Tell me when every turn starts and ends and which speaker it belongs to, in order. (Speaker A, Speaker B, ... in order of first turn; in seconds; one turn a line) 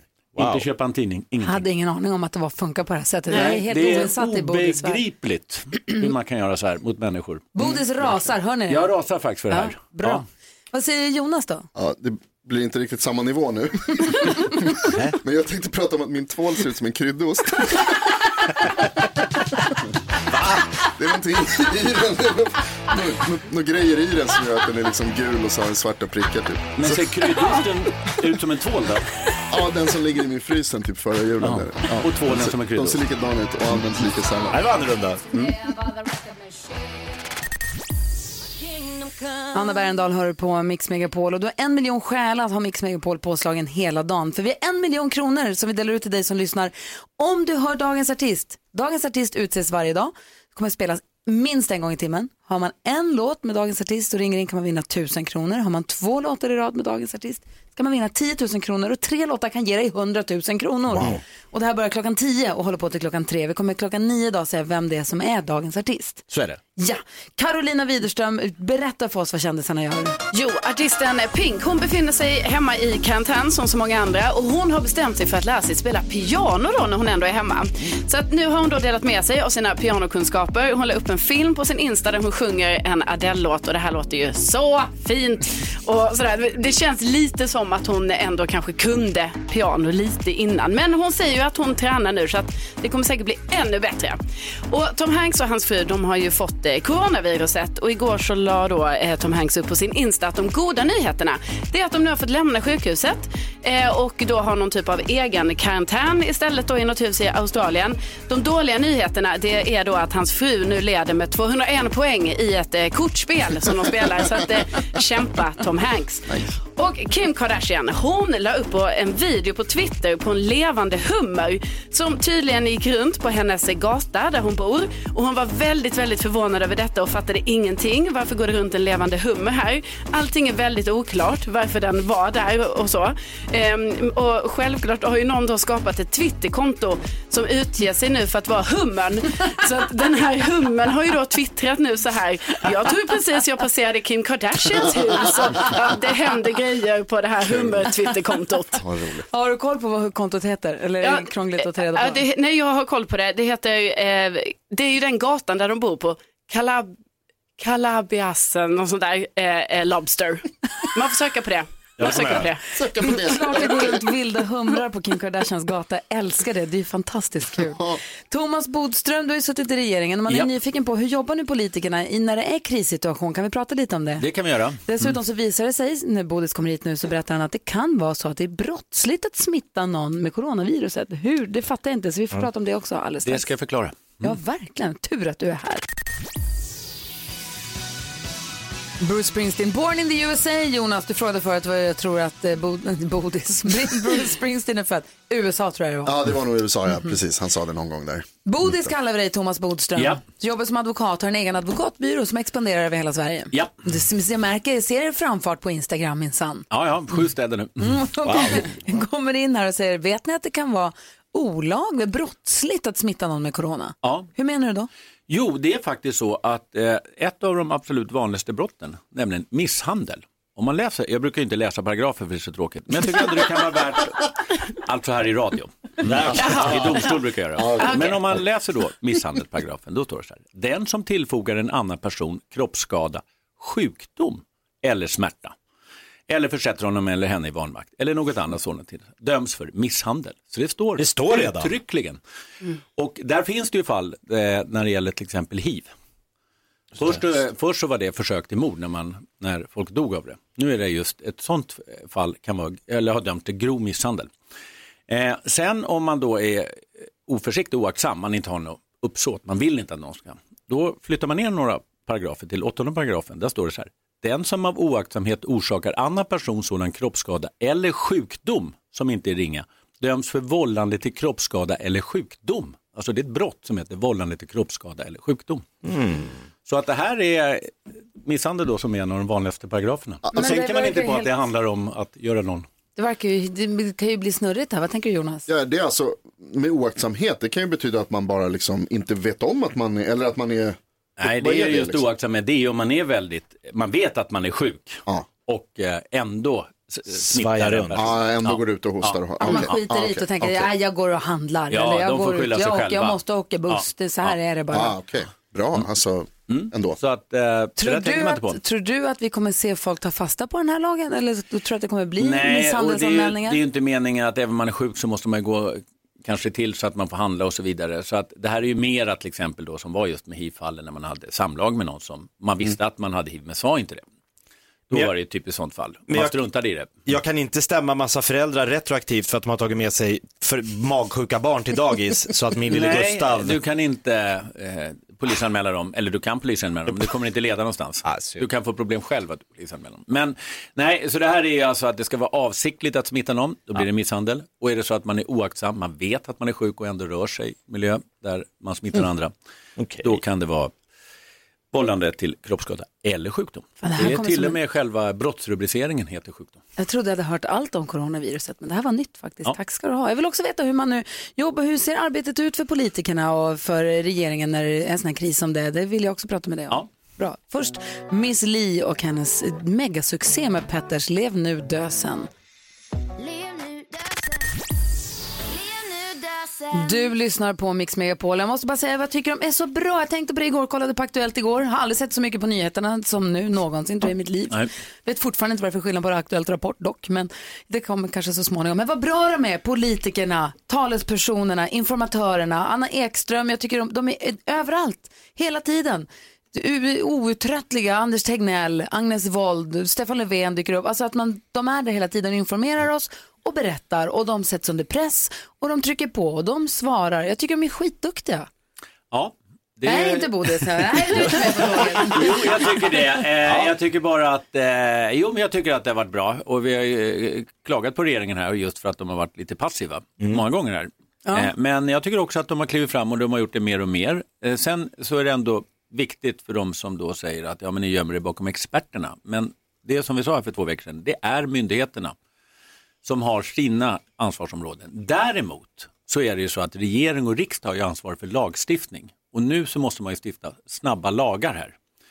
Speaker A: 0.4-1.6
Speaker B: 0.4-0.7
Speaker C: 1.4-5.0
Speaker D: 3.3-3.6
Speaker A: 3.3-7.5
Speaker C: 7.5-8.9
Speaker A: 8.7-10.2
Speaker C: 9.5-11.7
Speaker E: 11.8-18.1
Speaker E: 20.8-27.0
Speaker A: 26.8-29.1
Speaker E: 29.5-34.7
Speaker A: 31.4-33.0
Speaker B: 34.5-35.2
Speaker C: 39.5-66.2
Speaker E: 60.9-61.2
Speaker B: 61.0-61.2
Speaker B: 66.3-66.6
Speaker C: 66.8-70.2
Speaker D: 70.3-148.9
Speaker E: 148.8-149.2
Speaker C: 149.3-152.2
Speaker D: 151.0-156.9
Speaker D: 157.6-163.3
Speaker B: 162.0-162.5
Speaker E: 162.8-163.9
Speaker C: 163.1-174.3
Speaker E: 167.6-168.0
Speaker A: 174.2-174.8
Speaker C: 174.8-183.5
Speaker A: 183.2-184.4
Speaker C: 184.2-185.8
Speaker C: 189.0-196.2
Speaker E: 196.1-198.3
Speaker C: 198.5-206.7
Speaker A: 200.0-200.2
Speaker A: 206.7-208.0
Speaker C: 207.8-214.9
Speaker B: 208.2-208.6
Speaker A: 214.0-214.3
Speaker A: 215.3-235.6
Speaker B: 226.1-226.8
Speaker E: 226.3-226.8
Speaker E: 227.6-228.0
Speaker D: 227.8-228.1
Speaker A: 236.3-242.2
Speaker B: 241.0-241.7
Speaker A: 242.9-245.9
Speaker A: 247.0-254.3
Speaker A: 255.1-275.7
Speaker B: 275.9-276.4
Speaker A: 276.7-282.7
Speaker C: 280.3-281.3
Speaker C: 283.0-285.5
Speaker E: 285.5-292.0
Speaker A: 291.2-299.8
Speaker B: 297.1-298.1
Speaker E: 298.0-300.7
Speaker C: 299.4-305.0
Speaker A: 301.7-304.4
Speaker E: 304.7-307.0
Speaker A: 306.5-308.6
Speaker C: 307.8-313.6
Speaker A: 312.2-324.0
Speaker A: 324.9-327.0
Speaker B: 326.1-326.4
Speaker B: 327.1-333.6
Speaker A: 332.7-349.3
Speaker B: 338.1-338.4
Speaker B: 349.8-350.1
Speaker A: 350.0-350.7
Speaker A: 351.7-356.6
Speaker C: 353.8-354.6
Speaker C: 356.8-372.3
Speaker C: 376.7-408.5
Speaker A: 409.1-432.1
Speaker C: 409.9-412.4
Speaker B: 413.5-413.7
Speaker C: 421.3-421.5
Speaker A: 433.0-441.8